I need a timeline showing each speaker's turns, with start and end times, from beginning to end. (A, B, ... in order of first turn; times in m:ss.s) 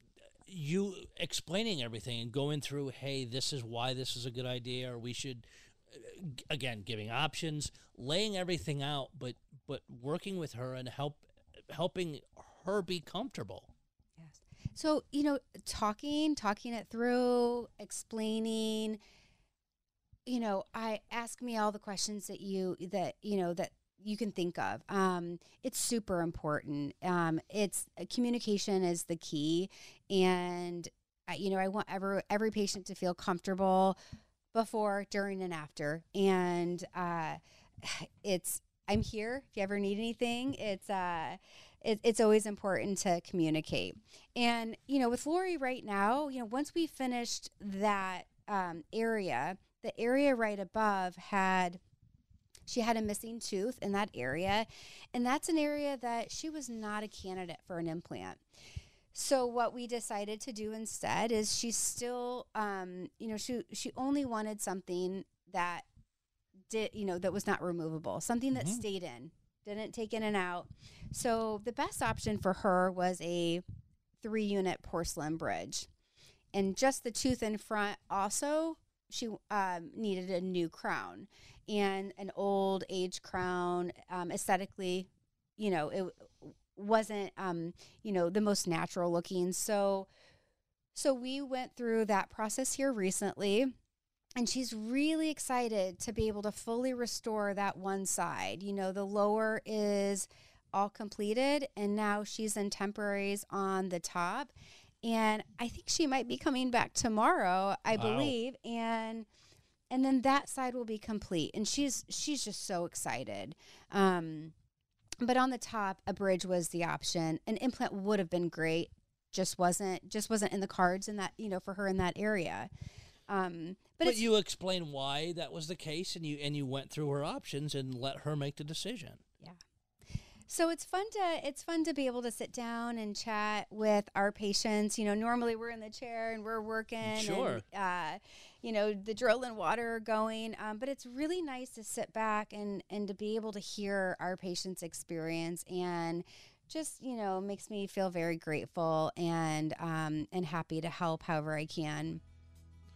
0:00.5-0:13.7 A
0:14.2-0:19.0 B
0:20.3-0:34.0 B
0:34.5-0:51.8 B
0:52.7-0:58.4 B
0:59.1-1:05.8 B
1:06.7-1:13.6 B
1:08.6-1:08.8 A
1:14.2-1:15.9 B
1:16.5-1:30.1 B
1:30.9-1:33.7 B
1:34.4-1:49.3 B
1:47.9-1:48.3 A
1:49.9-1:54.5 B
1:55.2-2:02.7 B
2:03.3-2:04.2 B
2:04.0-2:09.2 A
2:10.5-2:32.2 B
2:17.0-2:17.6 A